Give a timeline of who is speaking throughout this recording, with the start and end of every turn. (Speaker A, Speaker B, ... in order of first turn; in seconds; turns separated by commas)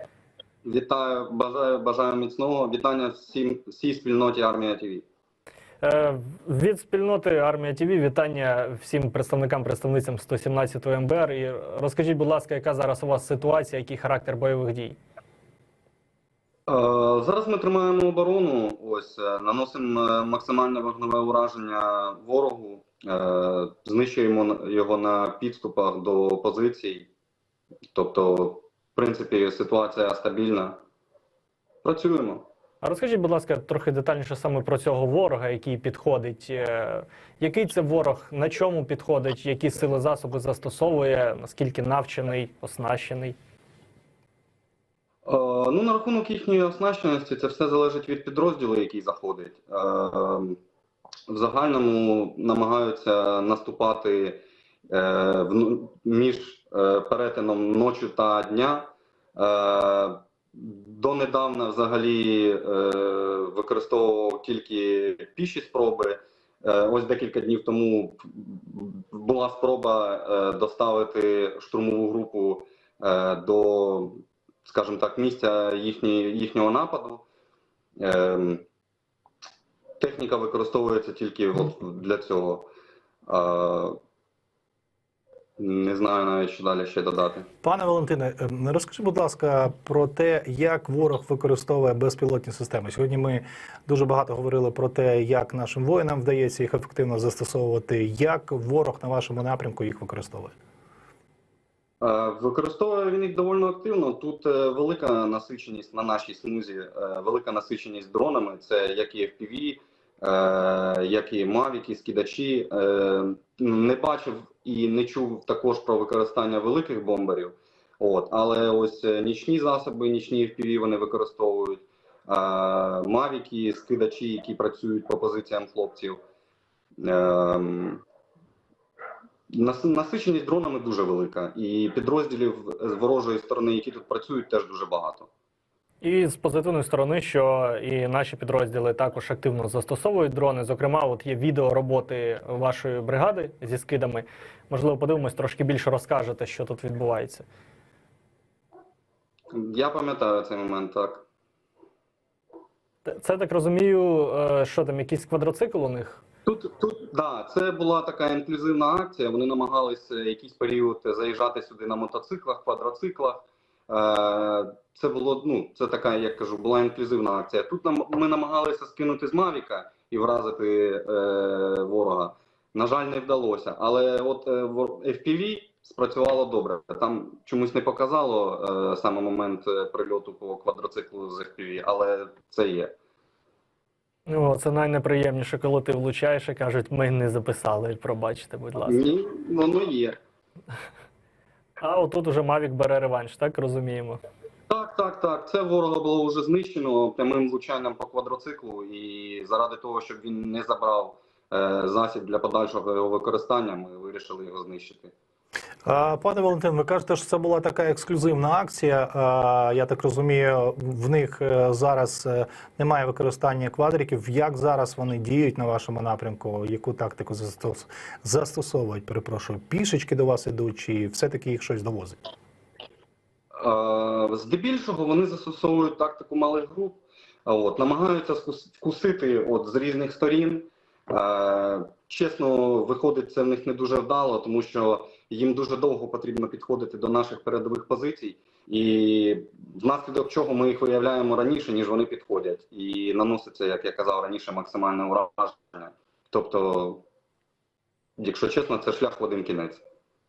Speaker A: 0.6-5.0, Speaker B: 5.8-15.0, Speaker A: 16.7-27.1, Speaker A: 27.9-30.8, Speaker A: 31.8-32.5, Speaker B: 32.8-43.4, Speaker A: 45.2-50.6, Speaker A: 51.3-77.2, Speaker A: 78.0-78.7, Speaker A: 80.0-82.7, Speaker A: 83.3-84.0, Speaker A: 85.6-87.5, Speaker C: 87.6-100.5, Speaker A: 102.0-126.2, Speaker A: 127.0-128.0, Speaker A: 129.5-135.3, Speaker B: 136.0-147.5, Speaker A: 149.5-151.2, Speaker B: 153.1-156.2, Speaker A: 156.5-182.9, Speaker B: 184.3-189.1, Speaker A: 188.8-190.2, Speaker B: 191.8-194.2, Speaker A: 194.7-205.1, Speaker C: 205.9-222.2, Speaker A: 223.6-247.0, Speaker A: 248.2-249.8